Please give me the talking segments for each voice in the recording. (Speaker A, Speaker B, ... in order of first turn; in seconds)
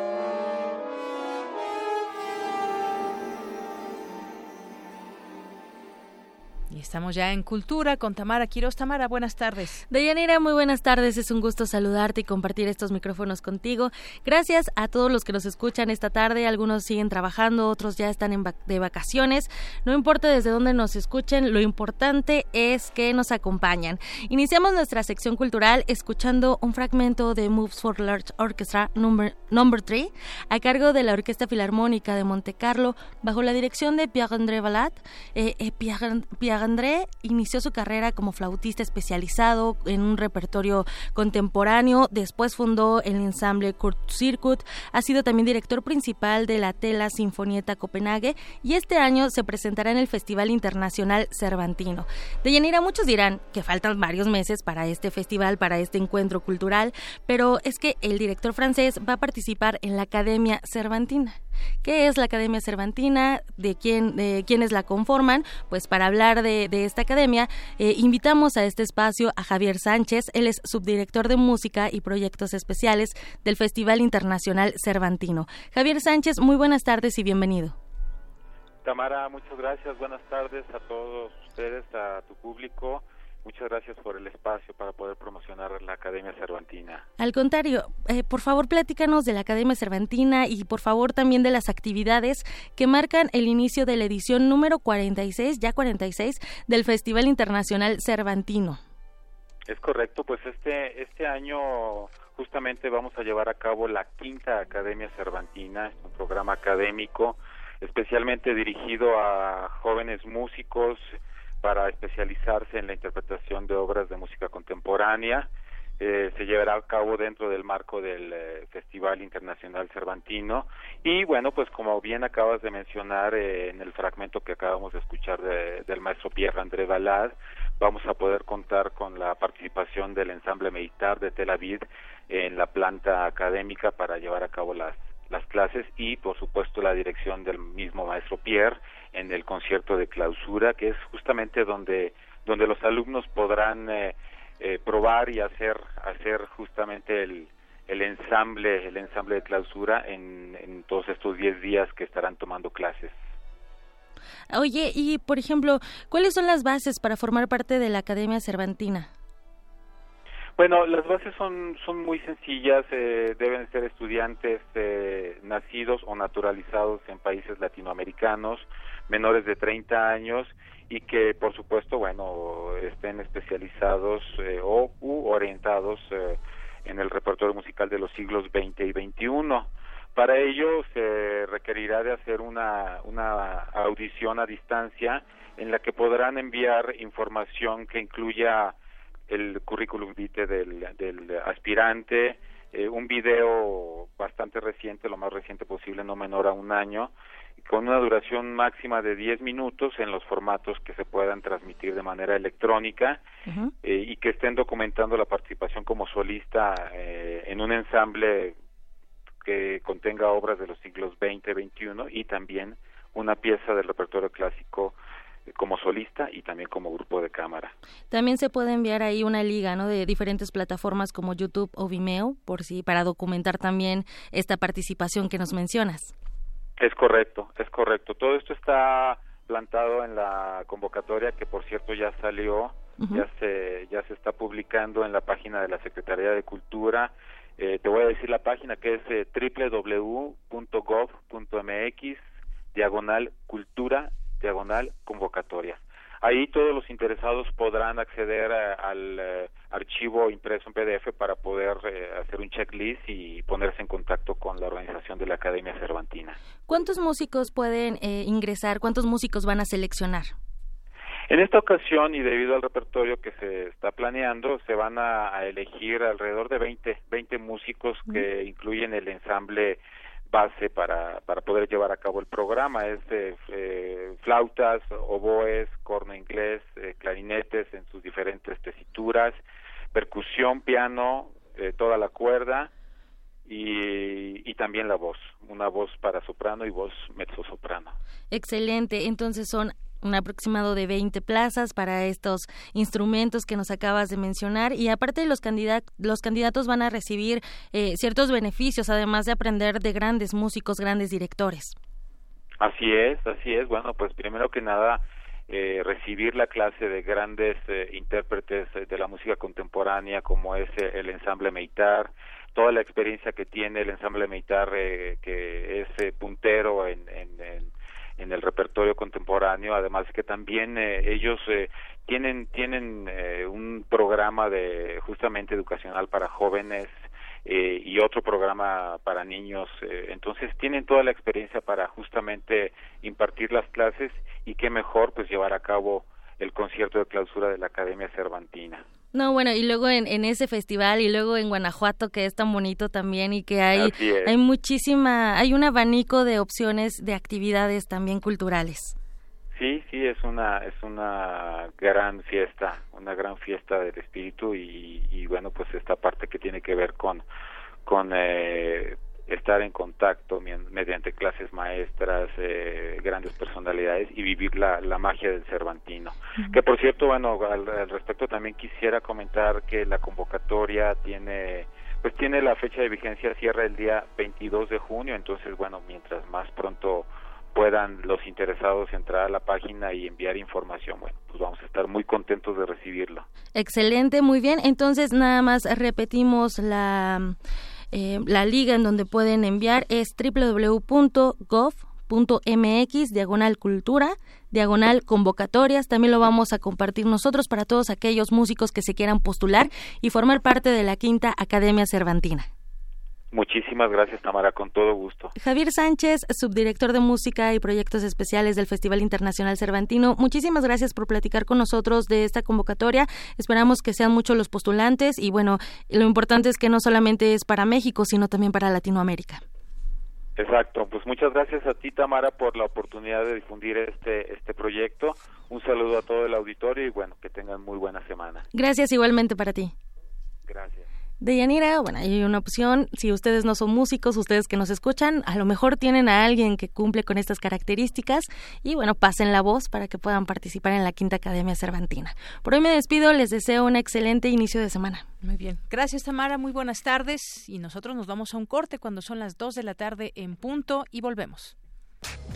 Speaker A: 6.7-9.8, 445.2-451.5
Speaker B: 9.9-77.8, 87.2-98.8, 154.5-159.1, 203.4-203.7, 218.1-226.1, 233.0-233.2, 256.7-260.3, 288.3-301.7, 339.1-348.9, 383.6-387.4, 387.9-402.5, 405.4-419.4, 428.5-429.7, 431.2-445.1
Speaker C: 78.8-87.0, 99.7-153.2, 160.6-188.7, 189.3-203.2, 203.8-208.6, 209.4-214.9, 215.5-217.7, 226.8-242.2, 242.7-256.4, 261.3-279.4, 279.9-282.7, 283.4-287.9, 302.6-338.8, 343.7-344.3, 349.5-357.2, 357.9-383.2, 403.3-405.3, 420.4-428.4, 430.5-430.9